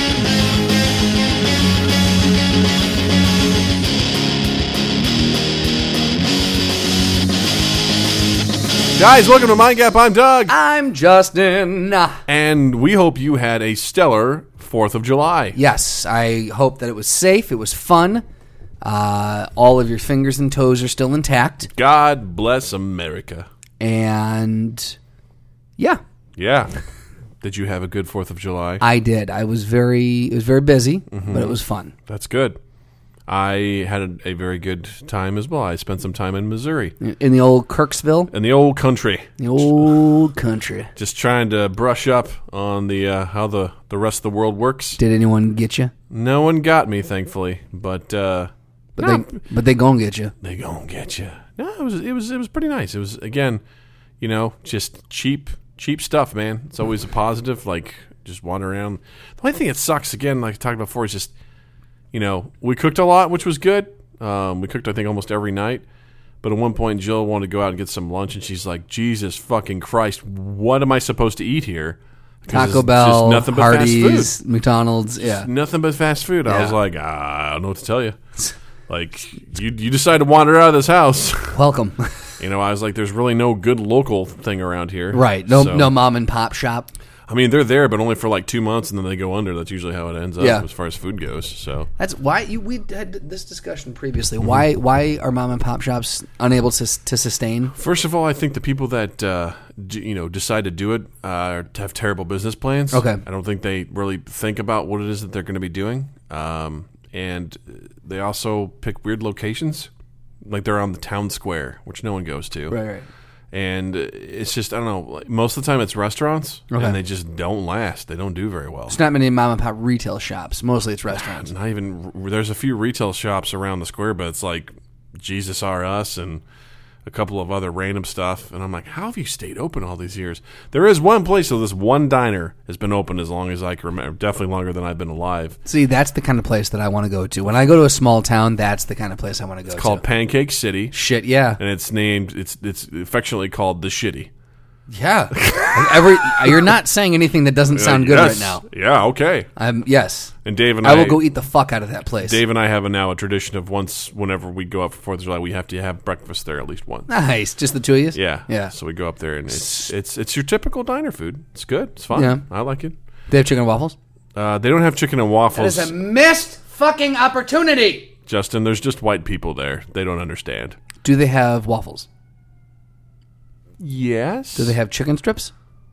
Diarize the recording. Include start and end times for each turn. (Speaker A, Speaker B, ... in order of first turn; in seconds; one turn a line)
Speaker A: 8.9-10.5
Speaker B: 10.5-12.2
Speaker A: 12.3-15.6
Speaker B: 15.5-18.2
Speaker B: 18.8-21.7
Speaker A: 21.7-23.5
Speaker B: 23.8-25.0
Speaker A: 26.4-26.7
Speaker A: 27.4-28.8
Speaker B: 28.8-31.9
Speaker A: 31.1-32.6
Speaker A: 33.3-37.0
Speaker B: 37.0-38.3
Speaker A: 38.3-39.9
Speaker B: 39.4-40.9
Speaker A: 41.0-45.0
Speaker B: 45.0-45.9
Speaker A: 46.1-49.3
Speaker B: 49.0-50.3
Speaker A: 50.4-53.6
Speaker A: 54.2-61.3
Speaker A: 62.1-65.8
Speaker A: 66.4-74.3
Speaker B: 72.5-75.5
Speaker A: 75.2-78.2
Speaker B: 76.5-76.7
Speaker A: 78.9-81.6
Speaker B: 81.5-82.3
Speaker A: 82.4-85.9
Speaker B: 85.1-86.9
Speaker A: 87.3-91.9
Speaker B: 90.4-90.6
Speaker B: 92.0-97.7
Speaker A: 97.7-109.9
Speaker B: 102.9-103.2
Speaker A: 110.4-112.8
Speaker B: 112.7-113.1
Speaker A: 113.5-119.0
Speaker B: 116.7-117.0
Speaker B: 118.9-121.5
Speaker A: 121.1-126.4
Speaker A: 127.0-135.6
Speaker B: 135.6-140.0
Speaker A: 139.7-140.9
Speaker B: 140.9-141.6
Speaker A: 141.6-144.3
Speaker B: 144.9-148.6
Speaker A: 145.3-146.7
Speaker A: 147.7-149.5
Speaker B: 149.6-152.4
Speaker A: 150.4-151.2
Speaker A: 152.2-157.1
Speaker B: 157.1-158.7
Speaker A: 158.1-162.9
Speaker B: 159.5-159.9
Speaker B: 162.1-162.4
Speaker B: 163.3-163.9
Speaker A: 164.3-165.9
Speaker B: 165.5-168.1
Speaker A: 168.3-170.8
Speaker B: 171.0-172.1
Speaker A: 173.8-174.8
Speaker B: 174.6-175.5